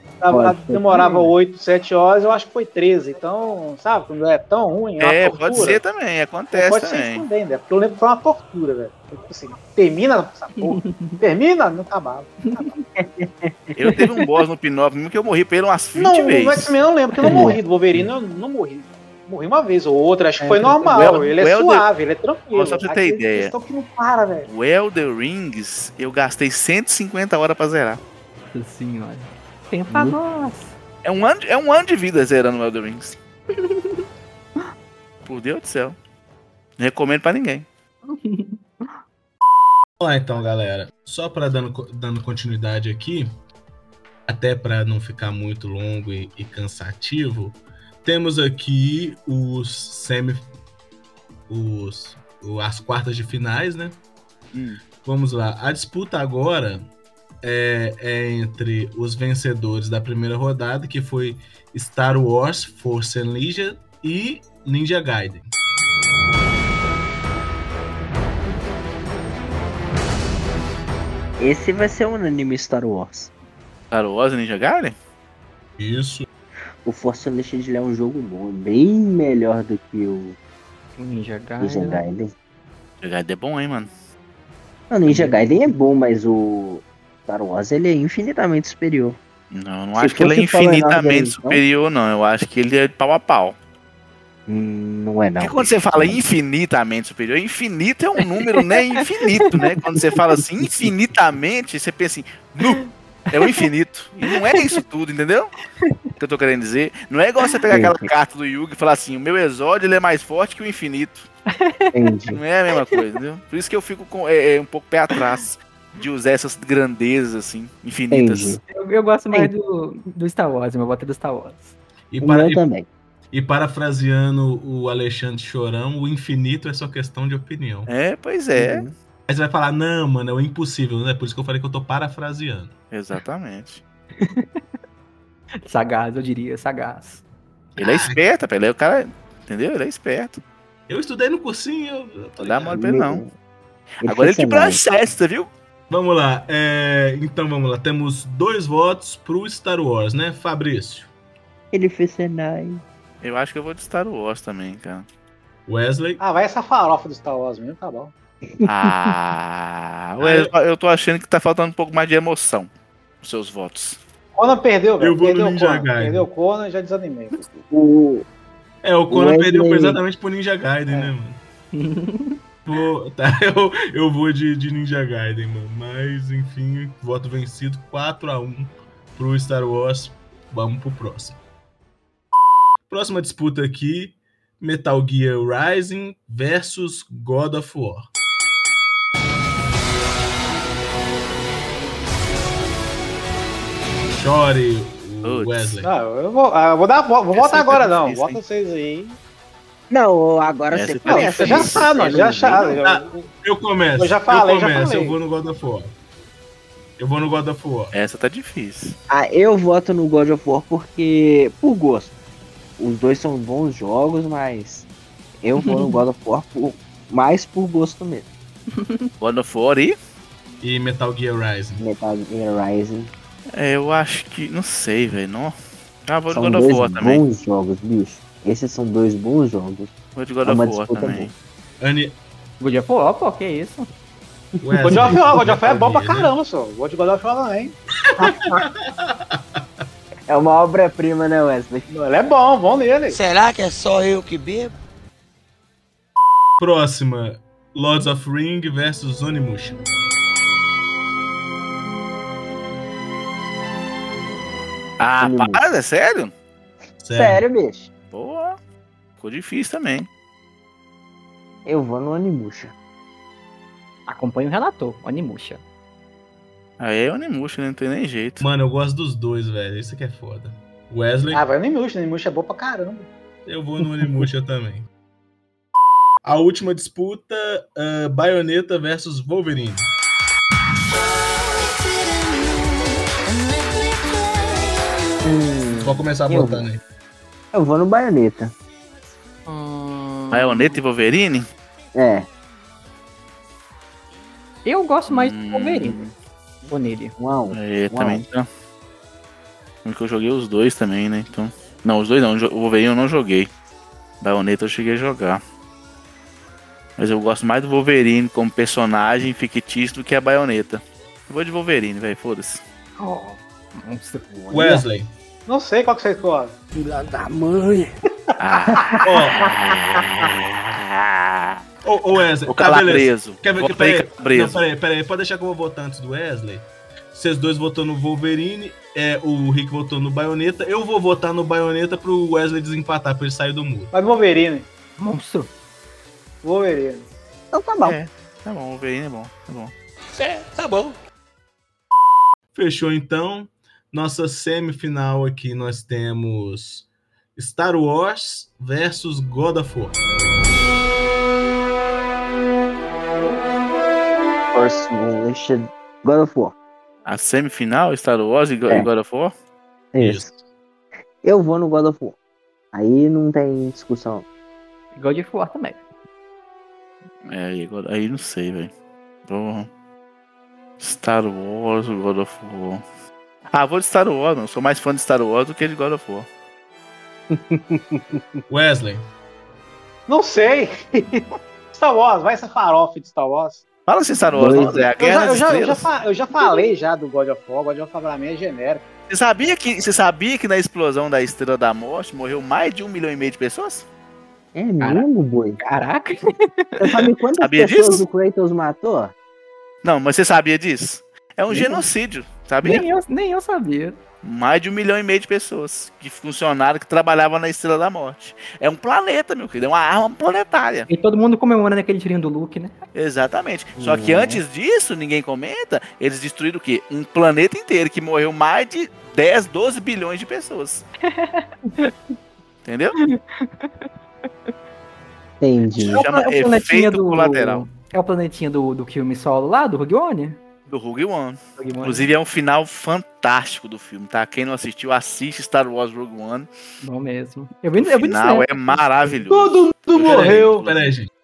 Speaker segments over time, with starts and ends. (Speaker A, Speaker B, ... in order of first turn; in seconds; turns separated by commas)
Speaker A: 0.2-5.8, Speaker B: 0.3-1.3, Speaker C: 5.0-7.2, Speaker A: 6.5-12.7, Speaker D: 10.7-11.2, Speaker D: 12.5-12.7, Speaker B: 13.0-13.6, Speaker C: 13.7-16.7, Speaker A: 16.0-24.5, Speaker D: 17.2-17.5, Speaker B: 17.2-18.1, Speaker D: 20.4-20.9, Speaker B: 20.5-21.1, Speaker C: 20.9-21.9, Speaker C: 22.5-23.5, Speaker C: 24.5-28.0, Speaker D: 28.5-30.7, Speaker B: 29.9-30.1, Speaker C: 31.0-33.2, Speaker D: 33.6-34.0, Speaker C: 35.2-36.0, Speaker C: 36.8-37.7, Speaker D: 38.1-39.0, Speaker E: 40.0-43.3, Speaker E: 44.3-50.5, Speaker E: 51.5-54.0, Speaker C: 54.5-54.8, Speaker E: 55.0-56.8, Speaker E: 57.4-65.5, Speaker B: 71.4-73.3, Speaker C: 73.9-75.0, Speaker E: 75.8-76.2, Speaker B: 76.8-80.4, Speaker D: 81.0-82.0, Speaker B: 81.6-82.3, Speaker C: 83.0-83.9, Speaker B: 84.9-89.2, Speaker C: 89.5-93.5, Speaker B: 90.0-91.6, Speaker B: 94.5-96.2, Speaker C: 95.4-105.5, Speaker D: 99.5-100.0, Speaker D: 102.6-103.6, Speaker D: 104.3-104.8, Speaker C: 106.2-111.3, Speaker B: 107.7-108.1, Speaker D: 111.5-111.9, Speaker B: 111.9-112.4, Speaker C: 112.3-118.6, Speaker B: 118.1-118.6, Speaker D: 118.7-121.8, Speaker E: 122.1-122.6, Speaker B: 122.2-122.9, Speaker E: 123.3-127.9, Speaker C: 127.9-128.9, Speaker B: 128.6-128.9, Speaker E: 129.3-132.7, Speaker C: 132.9-133.8, Speaker D: 134.2-134.6, Speaker D: 135.7-137.2, Speaker E: 137.8-138.2, Speaker C: 137.8-140.4, Speaker E: 140.9-142.7, Speaker C: 142.4-143.2, Speaker B: 142.6-143.3, Speaker C: 144.0-145.5, Speaker B: 144.0-144.8, Speaker E: 145.9-151.1, Speaker B: 151.7-152.8, Speaker C: 153.2-155.1, Speaker E: 155.7-156.2, Speaker A: 156.2-158.1, Speaker B: 158.6-159.1, Speaker C: 158.6-162.7, Speaker E: 160.2-160.5, Speaker C: 163.2-164.0, Speaker A: 164.3-167.3, Speaker E: 165.0-166.3, Speaker B: 167.5-168.2, Speaker E: 168.8-171.4, Speaker B: 169.1-170.0, Speaker D: 171.7-172.4, Speaker E: 172.6-181.4, Speaker E: 182.9-188.1, Speaker E: 194.1-195.9, Speaker C: 195.2-195.8, Speaker A: 195.8-199.2, Speaker C: 197.3-198.4, Speaker B: 199.9-202.8, Speaker C: 200.7-201.9, Speaker A: 201.1-203.3, Speaker E: 202.8-205.9, Speaker A: 203.9-205.2, Speaker E: 207.0-207.9, Speaker C: 207.9-208.9, Speaker B: 209.1-212.1, Speaker B: 212.8-214.9, Speaker B: 215.4-218.3, Speaker D: 215.6-216.0, Speaker D: 218.8-219.1, Speaker C: 219.2-219.9, Speaker E: 220.6-221.8, Speaker B: 221.8-223.1, Speaker C: 223.5-227.2, Speaker B: 226.3-229.9, Speaker C: 230.2-231.3, Speaker B: 230.4-231.3, Speaker E: 231.8-232.2, Speaker D: 232.6-233.9, Speaker B: 234.6-235.1, Speaker E: 234.6-236.3, Speaker A: 234.8-237.8, Speaker E: 238.1-239.4, Speaker B: 240.3-241.9, Speaker A: 241.9-243.2, Speaker F: 243.1-244.7, Speaker E: 246.6-249.8, Speaker C: 255.0-256.3, Speaker B: 255.2-255.7, Speaker E: 257.0-257.4, Speaker B: 257.1-257.9, Speaker C: 258.1-258.6, Speaker C: 259.2-260.1, Speaker B: 261.6-262.7, Speaker D: 264.1-265.6, Speaker C: 266.8-268.4, Speaker E: 268.4-271.4, Speaker A: 271.3-273.1, Speaker E: 273.4-274.9, Speaker E: 276.2-279.9, Speaker F: 281.2-284.6, Speaker B: 285.2-286.6, Speaker E: 285.8-286.8, Speaker B: 287.5-288.5, Speaker D: 289.4-290.8, Speaker C: 290.3-291.4, Speaker B: 291.9-292.3, Speaker D: 294.6-296.0, Speaker C: 295.1-296.1, Speaker D: 296.6-297.1, Speaker B: 297.2-298.2, Speaker C: 297.5-298.5, Speaker C: 299.8-303.5, Speaker C: 304.2-305.4, Speaker C: 307.0-312.6, Speaker D: 313.0-314.2, Speaker B: 314.3-314.8, Speaker E: 314.5-315.1, Speaker A: 315.5-316.5, Speaker B: 316.7-317.9, Speaker C: 318.4-320.5, Speaker E: 319.0-319.5, Speaker E: 321.8-333.9, Speaker C: 322.5-324.6, Speaker A: 333.9-334.7, Speaker D: 335.0-335.5, Speaker A: 336.4-337.1, Speaker B: 337.5-338.0, Speaker C: 337.8-339.7, Speaker E: 342.5-350.0, Speaker B: 354.5-356.5, Speaker C: 357.0-359.3, Speaker B: 359.9-360.3, Speaker E: 360.0-360.4, Speaker B: 361.2-362.1, Speaker B: 362.7-364.2, Speaker D: 364.9-365.8, Speaker C: 367.3-368.7, Speaker C: 369.3-369.7, Speaker C: 370.8-372.8, Speaker C: 373.5-376.3, Speaker B: 377.3-378.2, Speaker E: 378.5-379.0, Speaker A: 380.1-383.6, Speaker C: 383.9-385.9, Speaker B: 384.3-384.9, Speaker A: 385.0-388.8, Speaker C: 389.1-393.9, Speaker B: 394.5-395.6, Speaker D: 394.8-395.1, Speaker D: 395.6-396.6, Speaker B: 396.8-399.1, Speaker C: 397.4-398.0, Speaker C: 399.8-402.8, Speaker B: 401.5-401.8, Speaker D: 402.6-404.0, Speaker C: 404.2-410.9, Speaker D: 410.9-412.7, Speaker C: 412.9-420.9, Speaker B: 413.8-414.4, Speaker D: 421.0-421.9, Speaker C: 422.6-422.9, Speaker D: 423.0-423.9, Speaker B: 425.4-426.0, Speaker D: 425.7-430.4, Speaker C: 425.9-427.6, Speaker C: 430.7-436.5, Speaker D: 431.6-432.1, Speaker D: 436.8-439.2, Speaker C: 437.8-440.9, Speaker A: 439.3-440.6, Speaker E: 440.0-441.1